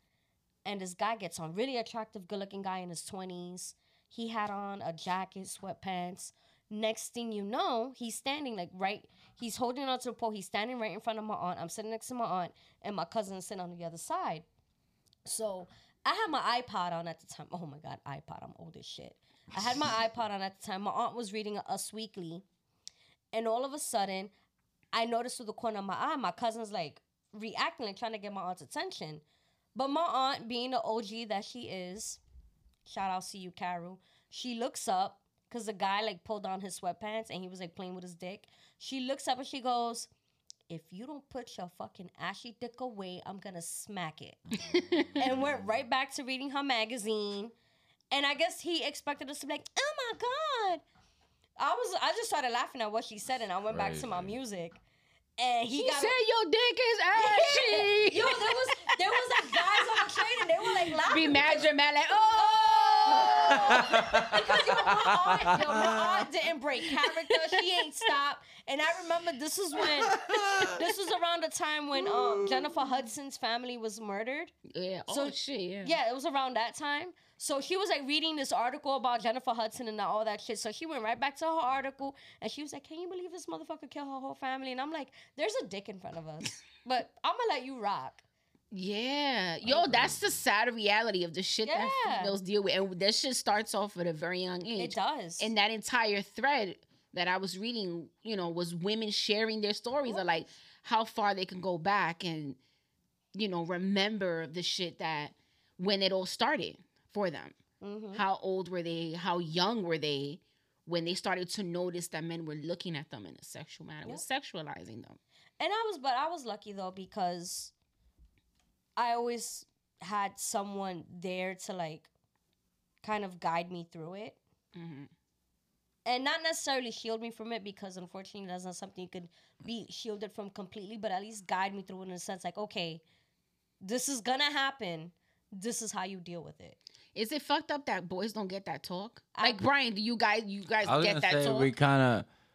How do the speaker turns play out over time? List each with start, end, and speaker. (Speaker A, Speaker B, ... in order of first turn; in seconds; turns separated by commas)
Speaker A: 0.6-14.4, Speaker A: 15.2-22.4, Speaker A: 23.3-24.3, Speaker A: 24.9-29.2, Speaker A: 29.7-32.2, Speaker A: 32.9-40.1, Speaker A: 40.7-44.4, Speaker B: 44.5-45.6, Speaker C: 44.6-45.2, Speaker A: 45.2-47.5, Speaker A: 48.1-50.8, Speaker A: 51.6-54.8, Speaker B: 53.7-54.3, Speaker A: 55.4-56.1, Speaker C: 55.7-63.8, Speaker A: 57.1-61.7, Speaker A: 62.3-74.5, Speaker B: 63.2-66.2, Speaker C: 65.6-65.9, Speaker C: 67.1-67.8, Speaker B: 69.9-70.8, Speaker B: 72.3-72.7, Speaker C: 74.7-76.0, Speaker A: 75.1-88.2, Speaker C: 88.7-102.6, Speaker B: 89.6-90.4, Speaker A: 91.6-92.4, Speaker A: 94.8-95.5, Speaker A: 100.1-100.4, Speaker C: 103.3-107.5, Speaker A: 107.8-108.2, Speaker C: 108.1-115.2, Speaker A: 115.6-117.7, Speaker A: 119.0-122.1, Speaker A: 123.0-124.4, Speaker C: 124.7-125.1, Speaker A: 126.0-133.0, Speaker A: 133.8-136.8, Speaker C: 137.1-141.7, Speaker A: 139.4-139.6, Speaker B: 140.8-142.3